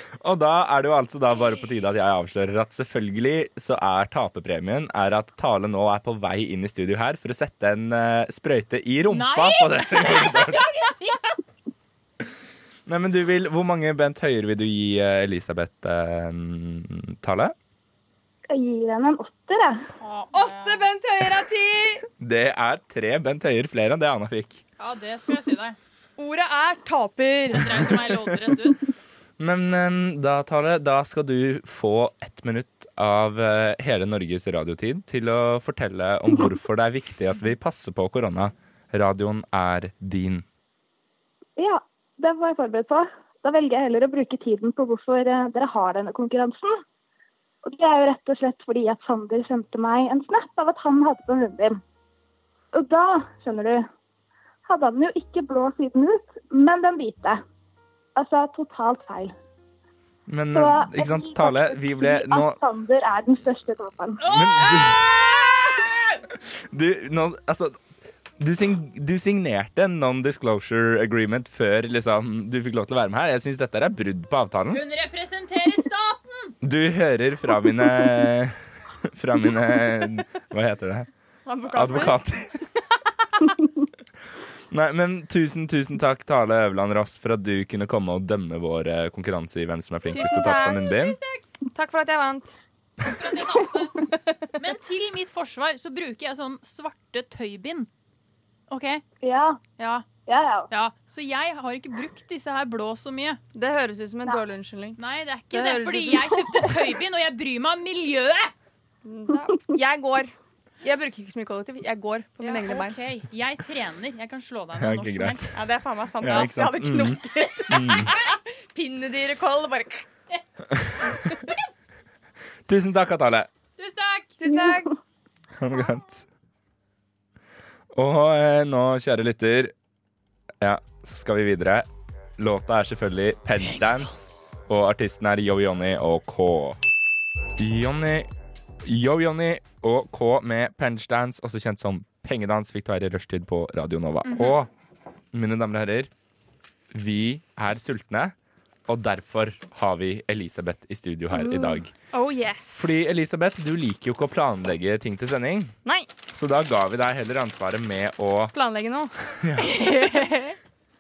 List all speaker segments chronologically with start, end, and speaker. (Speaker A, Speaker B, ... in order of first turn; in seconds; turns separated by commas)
Speaker A: 0.2-10.7, Speaker B: 9.1-11.4, Speaker A: 12.9-17.6, Speaker C: 18.5-19.9, Speaker B: 20.0-20.9, Speaker D: 20.3-22.1, Speaker A: 22.2-24.6, Speaker B: 24.8-25.8, Speaker D: 26.2-27.9, Speaker B: 27.5-28.8, Speaker A: 29.4-40.5, Speaker C: 41.6-46.8, Speaker C: 47.6-51.8, Speaker C: 52.7-53.9, Speaker C: 54.7-57.4, Speaker C: 58.1-59.3, Speaker A: 60.3-62.6, Speaker C: 60.5-64.2, Speaker B: 64.2-66.2, Speaker A: 64.2-65.7, Speaker A: 66.3-67.8, Speaker A: 68.4-74.8, Speaker B: 74.7-76.5, Speaker A: 76.6-81.1, Speaker D: 81.5-82.2, Speaker A: 81.7-82.6, Speaker A: 84.7-91.2, Speaker B: 90.1-91.4, Speaker D: 90.1-90.8, Speaker D: 91.7-92.6, Speaker B: 93.1-94.0, Speaker B: 94.5-97.9, Speaker B: 98.7-99.0, Speaker C: 99.2-99.6, Speaker B: 99.8-100.0, Speaker C: 100.3-100.7, Speaker B: 100.7-103.4, Speaker D: 103.5-105.0, Speaker B: 105.0-108.5, Speaker D: 105.5-106.5, Speaker D: 109.0-113.0, Speaker B: 112.4-115.5, Speaker A: 114.8-115.5, Speaker D: 115.5-120.1, Speaker A: 116.2-118.1, Speaker A: 120.7-121.1, Speaker A: 122.7-123.5, Speaker B: 123.8-124.4, Speaker D: 124.4-124.9, Speaker C: 124.5-124.8, Speaker A: 125.6-126.3, Speaker A: 127.9-129.7, Speaker A: 130.6-131.9, Speaker A: 132.4-136.8, Speaker A: 137.6-138.3, Speaker A: 138.8-144.7, Speaker B: 144.3-144.6, Speaker A: 145.3-146.1, Speaker A: 146.9-148.3, Speaker A: 148.9-151.9, Speaker D: 151.3-152.9, Speaker A: 152.8-155.7, Speaker A: 156.3-158.5, Speaker D: 158.5-159.1, Speaker A: 159.4-159.8, Speaker B: 159.6-160.6